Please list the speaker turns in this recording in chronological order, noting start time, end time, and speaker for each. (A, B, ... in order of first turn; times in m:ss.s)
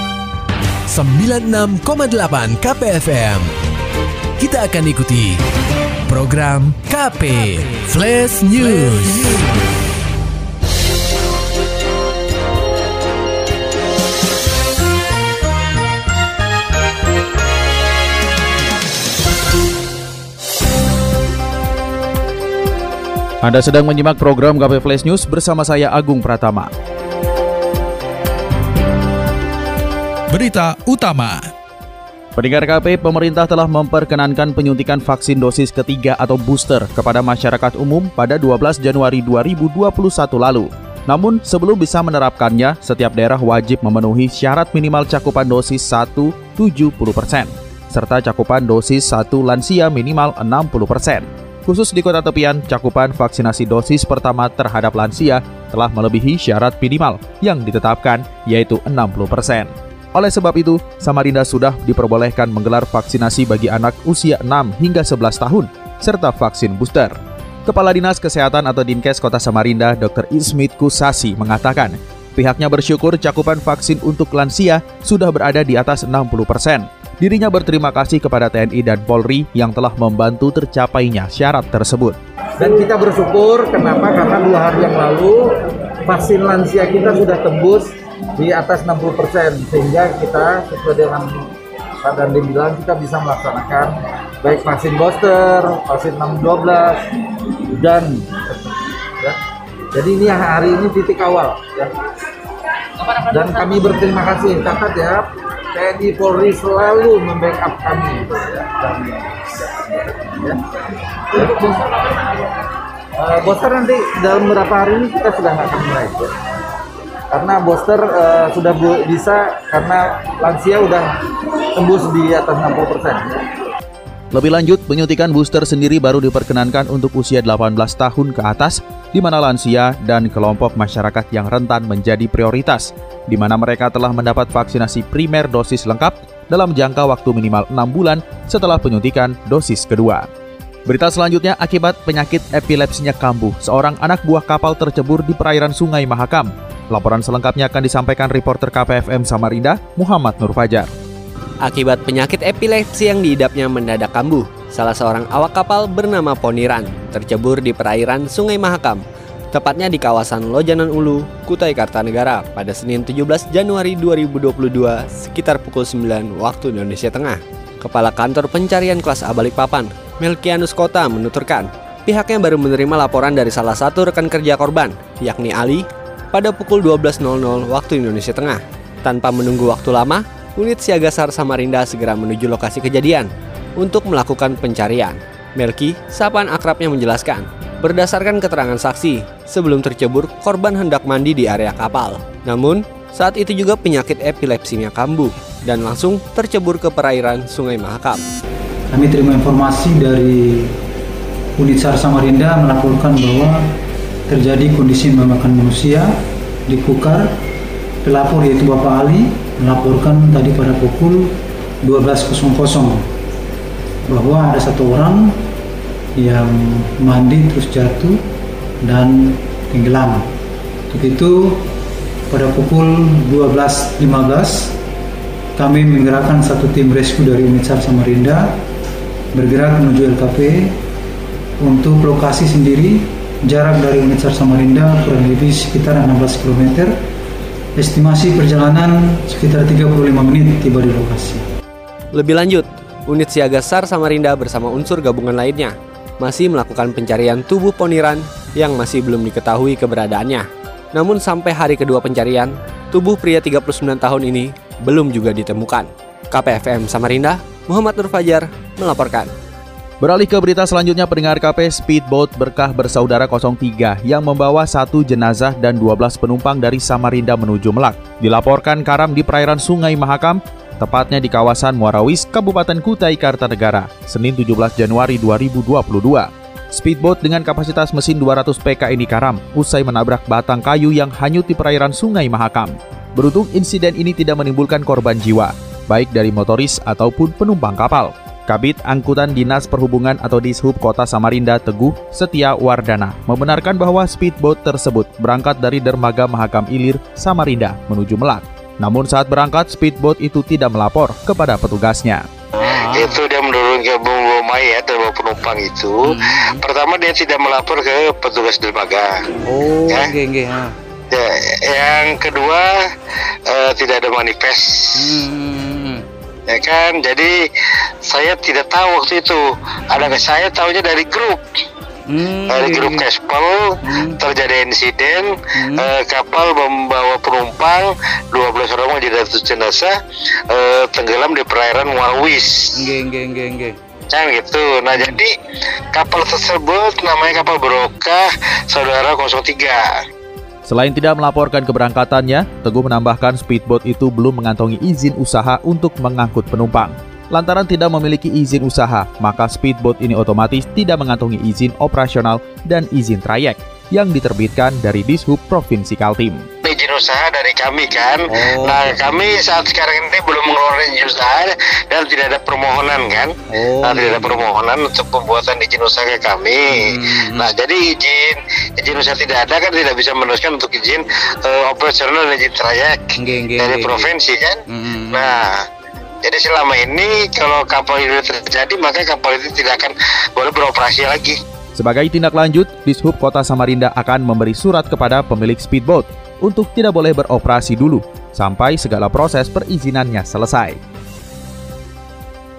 0:00.9-0:03.5 A
0:04.4-0:05.4 A
0:06.1-0:09.4 A
0:23.4-0:26.7 B
0:30.3-0:31.4 B
0:32.4-1:07.1 B
1:07.7-1:22.2 B
1:22.6-1:25.4 C
1:26.0-1:27.9 C
1:28.4-1:31.4 C
1:32.0-1:37.0 C
1:37.8-1:39.4 C
1:39.9-1:41.9 C
1:43.3-1:49.3 C
1:49.9-1:50.6 C
1:51.4-1:51.9 C
1:53.2-1:56.3 C
1:57.3-2:01.1 C
2:01.8-2:03.3 C
2:04.3-2:20.3 B
2:20.9-2:30.9 B
2:31.6-3:18.2 D
3:18.9-3:20.8 E
3:21.6-3:23.7 E
3:24.3-3:26.2 E
3:26.7-3:27.3 E
3:28.0-3:33.0 E
3:34.1-3:35.4 E
3:36.2-3:38.2 E
3:38.8-3:40.3 E
3:40.9-3:41.7 E
3:42.3-3:44.8 E
3:45.6-3:48.6 E
3:49.3-3:50.8 E
3:51.6-3:57.0 E
3:57.8-4:01.4 E
4:02.1-4:19.3 D
4:20.0-5:02.2 B
5:02.6-5:03.0 F
5:02.8-5:09.2 G
5:06.1-5:06.6 F
5:09.5-5:10.7 F
5:09.9-5:10.1 G
5:11.1-5:12.7 G
5:13.5-5:15.2 G
5:15.1-5:16.0 F
5:16.5-5:17.3 G
5:18.1-5:21.4 G
5:22.1-5:23.0 F
5:22.5-5:29.9 G
5:30.5-5:32.9 G
5:32.8-5:33.8 F
5:34.1-5:35.3 G
5:35.9-5:39.8 G
5:40.7-5:56.5 B
5:56.6-6:15.5 G
6:03.6-6:04.3 F
6:07.0-6:07.4 F
6:13.2-6:14.0 F
6:14.8-6:15.3 F
6:16.2-6:21.4 G
6:21.8-6:30.8 B